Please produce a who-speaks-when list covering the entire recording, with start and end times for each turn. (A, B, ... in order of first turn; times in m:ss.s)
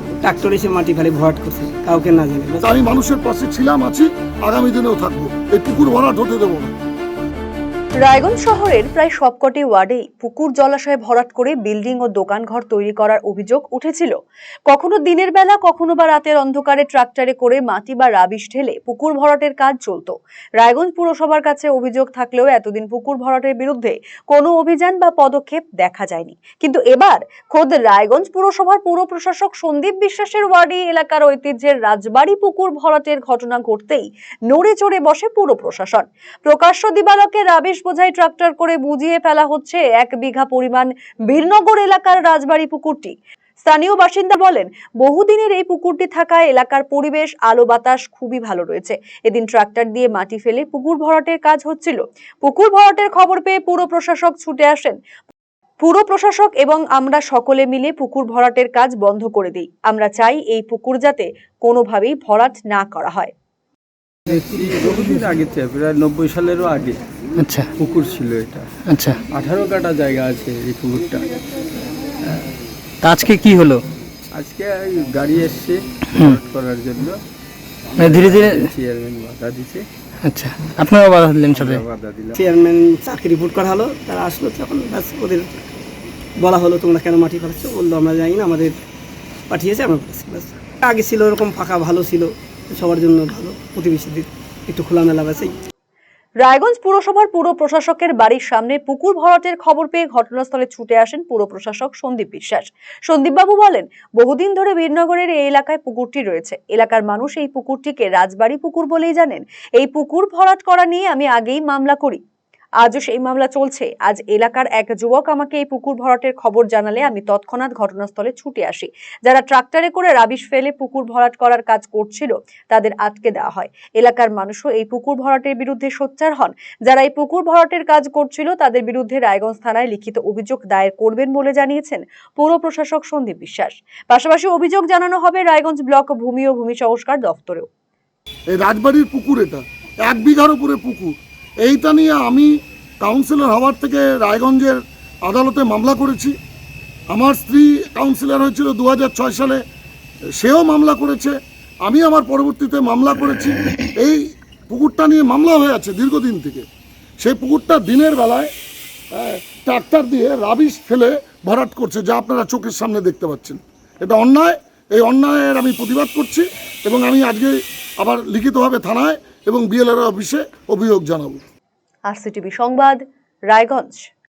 0:00.2-0:02.7 A
0:02.6-0:06.7 B
0:08.0-0:14.1 C
0:14.7-0:55.0 C
0:55.8-1:03.3 C
1:04.3-1:07.0 D
1:07.4-1:07.7 E
1:07.7-1:08.7 D
1:08.8-1:09.2 E
1:09.3-1:11.2 D
1:13.0-1:13.8 E
1:14.3-1:17.2 D
1:16.1-1:16.4 E
1:18.0-1:18.7 E
1:18.0-1:19.8 D
1:20.2-1:21.8 E
1:21.5-1:22.3 D
1:22.4-1:25.7 A
1:26.4-1:28.8 A
1:29.5-1:35.5 A
1:36.4-1:52.2 C
1:52.8-2:17.7 C
2:18.5-2:22.5 B
2:23.0-2:26.3 B
2:27.1-2:29.6 B
2:30.4-2:36.6 B
2:37.2-2:38.5 B
2:39.1-2:51.4 B
2:52.1-2:54.1 C